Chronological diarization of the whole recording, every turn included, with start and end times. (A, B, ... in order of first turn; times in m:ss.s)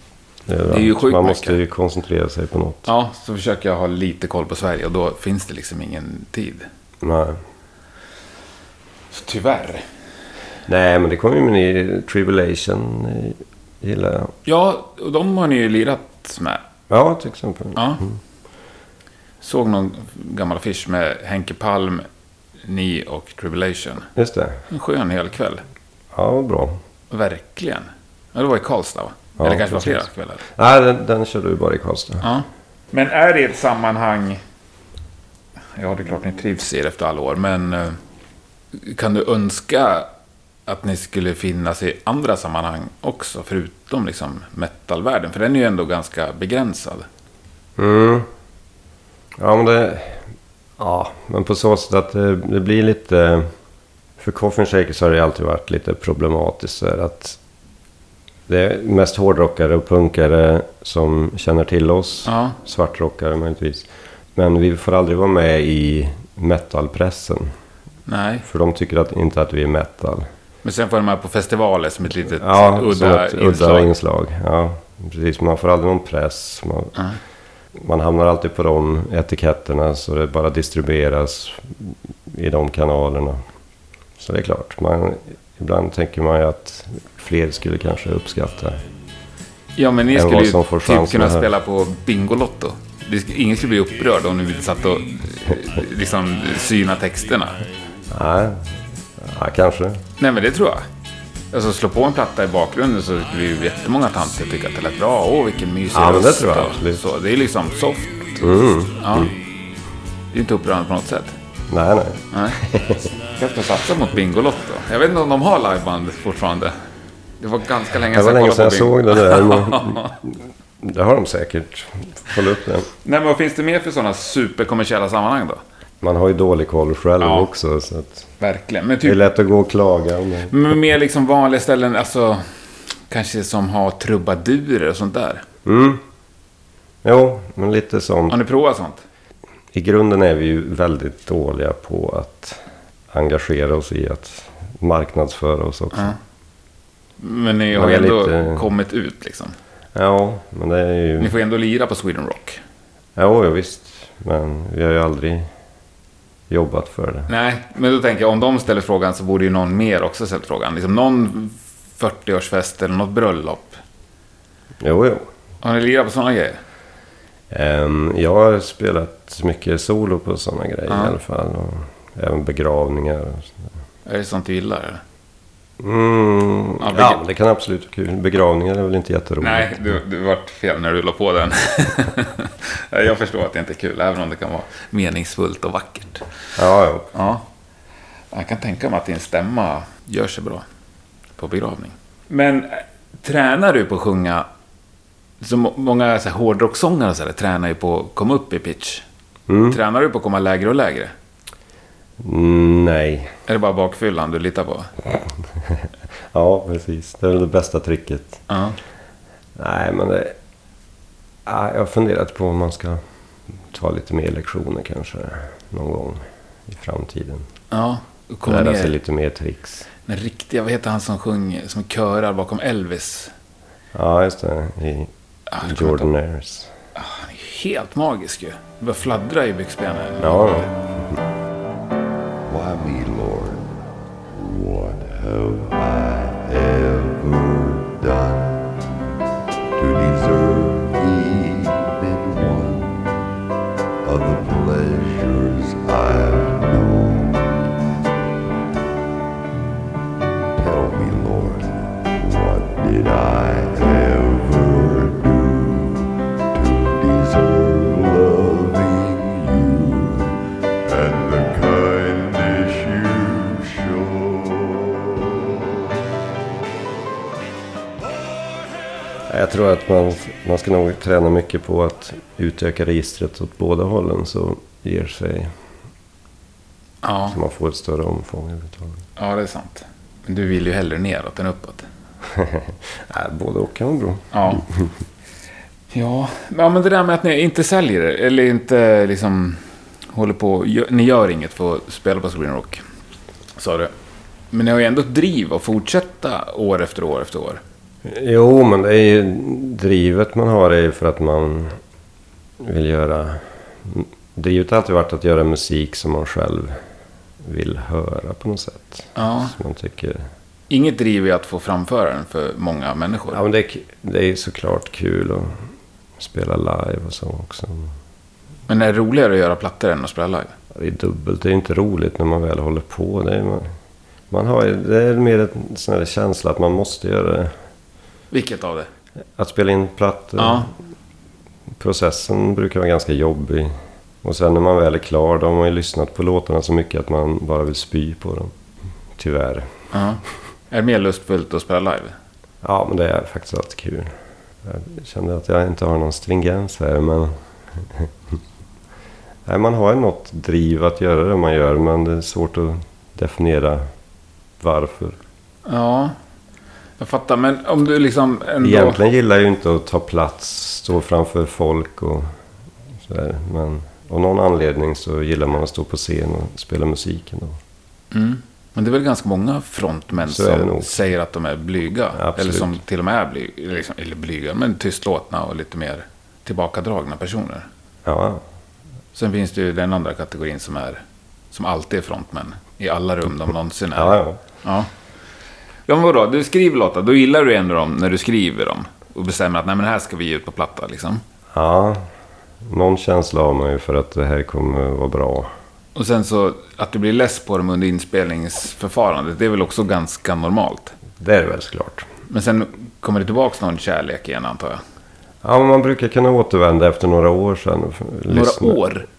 0:00.5-0:02.9 A
0:00.7-0:01.6 B
0:02.9-0:06.7 B
0:07.0-0:07.4 A
0:09.1-0:09.8 B
0:10.7-0:14.3 A
0:14.5-0:16.6 B
0:16.9-0:18.2 A
0:17.8-0:18.0 B
0:19.4-0:22.1 B
0:22.6-0:24.1 B
0:24.2-0:24.6 A
0:24.7-0:25.6 B
0:26.1-0:26.8 A
0:27.1-0:30.4 B
0:29.4-0:32.3 A
0:32.2-0:34.4 B
0:35.8-0:38.0 B
0:38.7-0:40.1 B
0:40.7-0:47.1 B
0:47.8-0:48.3 A
0:49.4-0:50.2 A
0:50.8-0:53.5 A
0:54.2-0:57.4 A
0:58.5-1:07.5 A
1:02.3-1:02.6 B
1:08.1-1:08.4 B
1:08.4-1:10.3 A
1:10.6-1:13.9 B
1:12.4-1:17.0 A
1:17.8-1:23.4 A
1:24.2-1:28.8 A
1:29.8-1:37.6 B
1:30.1-1:31.5 A
1:38.1-1:40.0 A
1:40.2-1:40.9 B
1:41.5-1:49.3 B
1:45.9-1:47.0 A
1:48.4-1:49.3 A
1:50.3-1:51.4 B
1:51.7-1:53.1 A
1:52.3-1:52.6 B
1:53.4-1:56.7 B
1:57.4-2:00.1 B
1:58.1-2:02.9 A
2:03.0-2:05.6 B
2:06.0-2:08.3 A
2:07.2-2:07.5 B
2:08.4-2:09.2 B
2:09.0-2:10.5 A
2:10.5-2:12.4 B
2:13.1-2:15.4 B
2:15.7-2:16.0 A
2:17.0-2:18.4 A
2:18.3-2:19.0 B
2:19.7-2:26.2 A
2:27.2-2:29.6 B
2:27.7-2:28.7 A
2:30.0-2:31.4 A
2:31.2-2:32.6 B
2:33.2-2:35.5 A
2:36.5-2:37.3 A
2:37.3-2:43.8 B
2:44.8-2:45.3 A
2:45.6-2:46.6 B
2:47.5-2:53.6 A
2:54.0-2:55.0 B
2:55.8-3:00.0 A
2:56.8-2:57.2 B
2:59.4-3:06.3 B
3:06.6-3:07.1 A
3:07.1-3:07.5 B
3:08.3-3:10.7 B
3:11.4-3:14.5 B
3:15.4-3:19.0 B
3:19.5-3:19.8 A
3:19.7-3:21.1 B
3:22.2-3:23.4 A
3:23.5-3:24.9 B
3:25.6-3:28.4 A
3:28.5-3:28.8 B
3:29.6-3:30.4 A
3:31.5-3:33.0 A
3:33.7-3:37.5 A
3:37.7-3:39.0 B
3:38.5-3:39.9 A
3:40.1-3:43.3 B
3:43.9-3:46.7 A
3:45.5-3:46.1 B
3:47.0-3:50.6 B
3:50.2-3:51.1 A
3:52.5-3:59.0 C
3:59.8-4:03.1 C
4:04.0-4:07.6 C
4:10.5-4:25.6 C
4:29.3-4:35.5 A
4:37.0-4:37.4 B
4:37.3-4:39.0 A
4:39.2-4:41.9 B
4:42.3-4:44.9 A
4:44.3-4:44.6 B
4:45.9-4:52.8 B
4:53.6-4:53.9 B
4:54.5-4:57.6 B
4:58.0-5:01.8 A
5:02.6-5:06.8 A
5:07.4-5:10.3 A
5:09.2-5:09.5 B
5:10.7-5:13.4 B
5:13.3-5:15.6 A
5:16.2-5:17.9 A
5:18.7-5:20.5 B
5:20.7-5:23.7 A
5:24.3-5:27.5 A
5:28.3-5:28.9 B
5:29.4-5:30.7 A
5:30.4-5:30.7 B
5:31.8-5:38.5 A
5:39.2-5:39.7 A
5:39.9-5:42.2 B
5:42.6-5:44.1 A
5:44.6-5:48.1 A
5:49.5-5:53.8 A
5:54.6-5:55.2 A
5:55.6-5:56.2 B
5:57.0-5:59.0 B
5:58.6-6:02.3 A
6:03.0-6:07.6 A
6:08.1-6:17.7 B
6:10.2-6:11.0 A
6:12.1-6:12.8 A
6:18.1-6:18.4 A
6:19.1-6:24.9 B
6:24.0-6:24.4 A
6:25.9-6:31.2 B
6:31.5-6:32.0 A
6:32.7-6:35.5 A
6:36.0-6:40.9 B
6:41.2-6:42.1 A
6:42.3-6:44.8 B
6:45.4-6:48.8 A
6:48.3-6:49.1 B